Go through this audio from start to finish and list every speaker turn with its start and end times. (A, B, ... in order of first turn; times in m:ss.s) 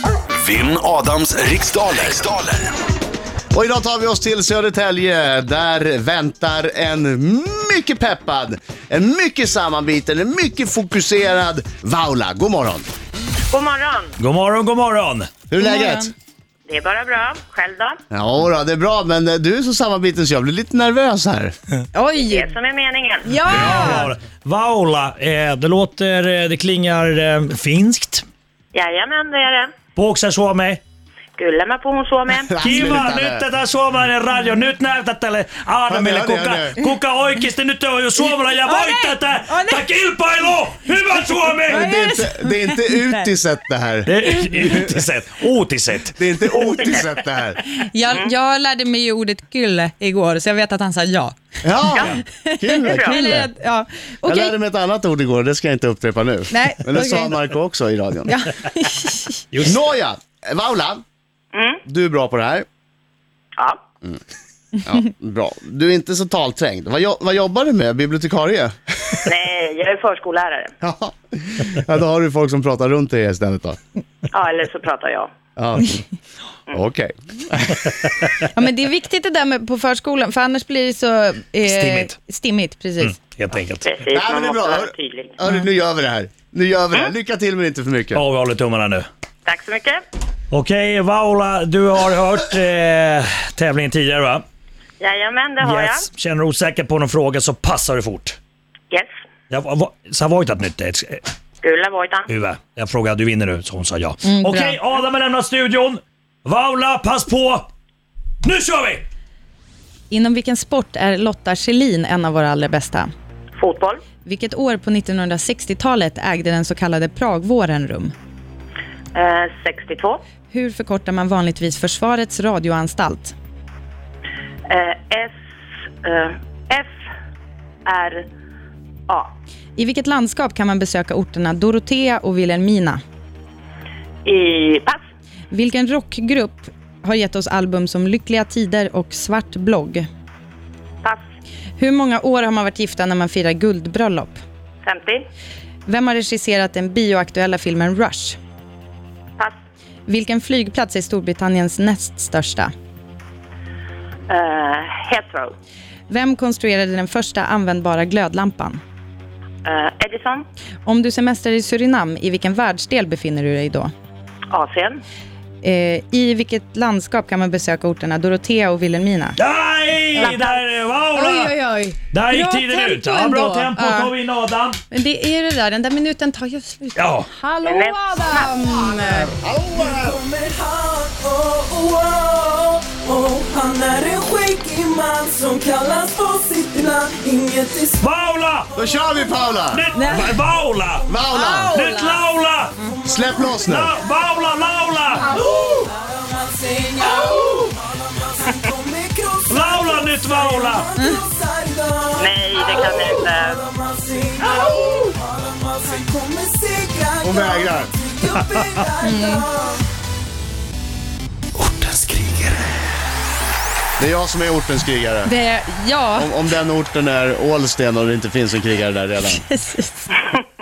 0:00.4-0:02.7 A
0:03.5-0:12.9 B
0:13.5-0:14.2 C
0:14.2-0:15.3 D
0:15.5-0:16.1 B
0:15.6-0:16.1 E
0:16.7-0:18.0 C
0:18.1-0:21.5 B
0:21.9-0:22.5 E
0:22.2-0:23.3 C
0:23.2-0:24.1 E
0:23.4-0:28.2 D
0:28.7-0:29.8 C
0:29.9-0:30.8 D
0:31.4-0:32.6 C
0:32.5-0:33.5 B
0:32.6-0:41.9 D
0:35.9-0:36.9 B
0:38.5-0:39.9 E
0:41.6-0:43.3 E
0:41.7-0:44.8 B
0:44.1-0:46.2 D
0:46.2-0:47.6 B
0:47.8-0:51.4 E
0:51.6-0:53.5 B
0:52.0-0:52.2 C
0:52.0-0:54.6 E
0:52.9-0:53.2 C
0:54.2-0:58.4 B
0:56.5-0:57.4 E
0:58.3-0:59.4 E
0:59.5-0:59.8 D
0:59.6-1:01.0 B
1:01.5-1:01.8 C
1:01.9-1:02.6 B
1:04.8-1:09.2 B
1:09.2-1:10.7 C
1:10.8-1:13.8 B
1:14.3-1:15.3 C
1:15.6-1:16.0 B
1:16.7-1:18.1 B
1:18.5-1:23.2 E
1:21.7-1:22.1 D
1:23.0-1:24.0 D
1:23.8-1:25.3 C
1:24.1-1:28.2 B
1:28.1-1:29.1 D
1:29.5-1:30.0 C
1:30.5-1:34.4 D
1:35.0-1:36.1 C
1:35.6-1:38.4 D
1:39.5-1:41.2 D
1:41.6-1:42.3 C
1:42.3-1:47.7 D
1:44.2-1:44.8 E
1:48.4-1:49.0 D
1:50.1-1:53.1 E
1:53.6-1:54.0 C
1:54.2-1:58.1 E
1:59.1-2:00.2 C
2:00.5-2:03.4 E
2:04.7-2:05.3 C
2:06.0-2:07.0 C
2:07.9-2:08.3 C
2:09.1-2:09.4 C
2:09.8-2:13.0 E
2:14.2-2:15.0 C
2:15.5-2:20.1 E
2:21.8-2:24.4 E
2:24.8-2:25.3 C
2:25.9-2:28.4 E
2:30.1-2:32.7 E
2:34.3-2:35.5 C
2:36.1-2:38.8 E
2:39.6-2:40.4 C
2:40.9-2:43.9 E
2:44.5-2:45.0 C
2:45.6-2:49.4 E
2:49.4-2:51.5 D
2:50.1-2:54.1 E
2:52.1-2:54.8 D
2:54.9-2:59.3 E
2:57.0-2:57.3 D
2:57.6-2:58.6 C
2:58.8-3:00.2 B
2:59.7-3:09.5 F
3:08.0-3:08.7 D
3:08.8-3:09.9 B
3:09.7-3:11.1 D
3:09.9-3:10.4 E
3:11.0-3:11.7 B
3:11.3-3:12.2 E
3:11.7-3:12.8 D
3:12.9-3:13.6 F
3:13.0-3:14.0 B
3:13.6-3:15.3 D
3:15.1-3:29.8 F
3:19.5-3:20.9 D
3:22.2-3:23.6 C
3:27.2-3:27.9 B
3:29.0-3:29.5 E
3:31.6-3:32.7 A
3:34.0-3:35.3 B
3:35.2-3:36.3 E
3:36.2-3:39.4 B
3:39.3-3:40.1 E